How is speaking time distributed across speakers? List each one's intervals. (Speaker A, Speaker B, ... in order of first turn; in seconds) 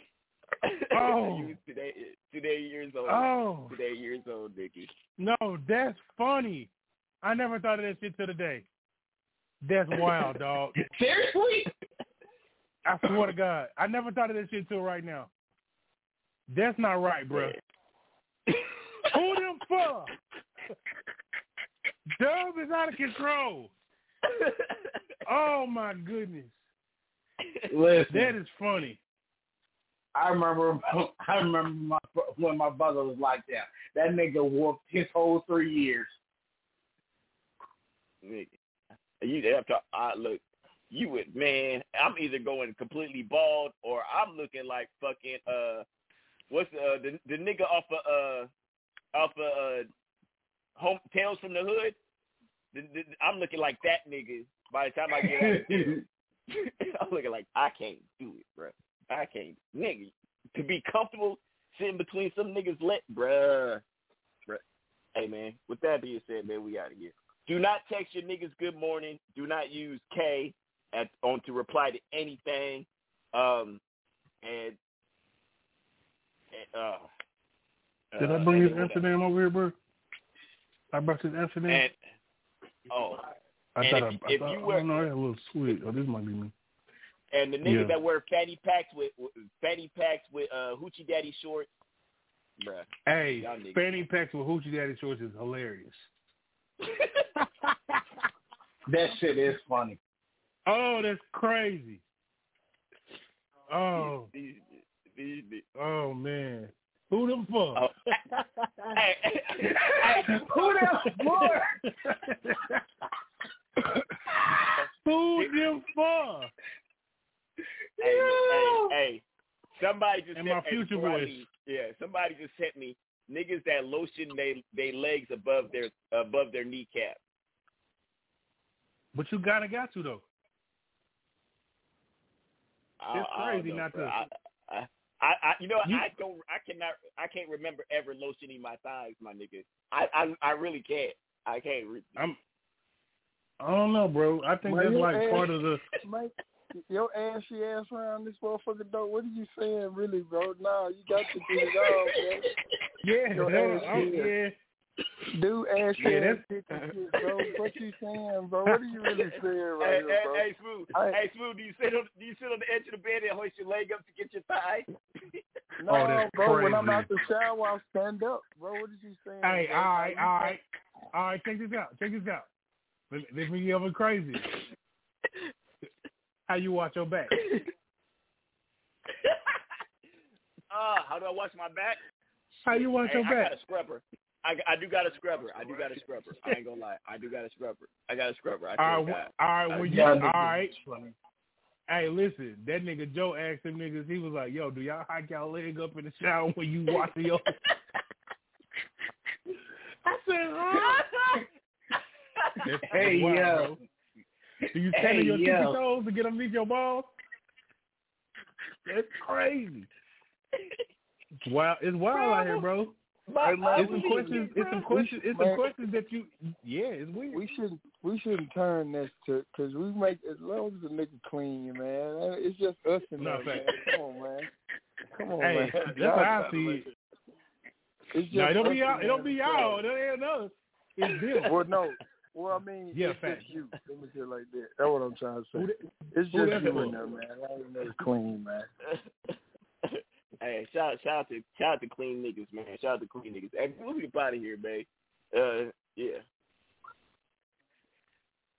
Speaker A: 0.9-1.6, 3.0-3.8, 5.2-6.7, 7.2-8.6, 9.6-10.8, 12.8-15.3, 16.5-17.6, 19.1-20.1, 22.2-23.7, 25.2-26.5, 28.1-29.0, 78.2-79.7, 80.9-81.8, 83.8-86.5, 87.6-88.0, 93.0-96.1, 97.4-98.0, 100.7-102.0, 103.7-104.3, 105.8-109.0, 110.5-111.5, 112.0-112.8, 115.0-116.5, 120.3-121.5, 129.1-130.2, 133.1-134.2, 143.6-145.8, 153.0-154.5, 156.0-156.4, 165.9-167.1, 169.4-170.6, 171.1-172.4, 173.1-174.5, 176.5-177.3, 182.6-183.5, 188.8-190.7, 191.9-197.4, 200.1-201.2, 202.6-203.8, 204.7-207.1, 208.9-209.9, 211.4-212.9, 213.7-217.5, 223.2-223.8, 225.4-226.8, 228.3-231.6, 232.9-233.5, 235.5-237.0
Speaker B: 1.0-4.9, 39.2-40.4, 40.9-45.8, 46.5-48.5, 49.1-49.8, 50.8-51.9, 52.7-55.9, 56.5-63.8, 65.2-73.8, 74.4-74.7, 76.5-77.0, 78.1-79.0, 82.9-83.3, 83.8-85.1, 87.3-91.7, 92.6-92.8, 93.4-93.8, 104.0-104.6, 105.2-105.6, 118.1-119.2, 119.8-127.2, 133.0-142.2, 156.8-157.6, 159.8-164.8, 180.7-182.0, 182.7-189.2, 212.1-212.6, 213.3-214.8, 240.4-246.2
Speaker C: 10.8-11.7, 27.7-28.4, 30.1-36.1, 55.3-56.0, 98.9-100.0, 110.0-111.8, 118.0-118.9, 189.7-191.1, 202.9-203.8, 204.9-205.8
Speaker D: 144.6-145.5, 146.0-152.4, 153.3-154.3, 155.3-161.2, 165.8-170.6, 213.4-215.7, 217.3-224.5, 225.1-226.8, 228.1-229.8, 231.4-238.7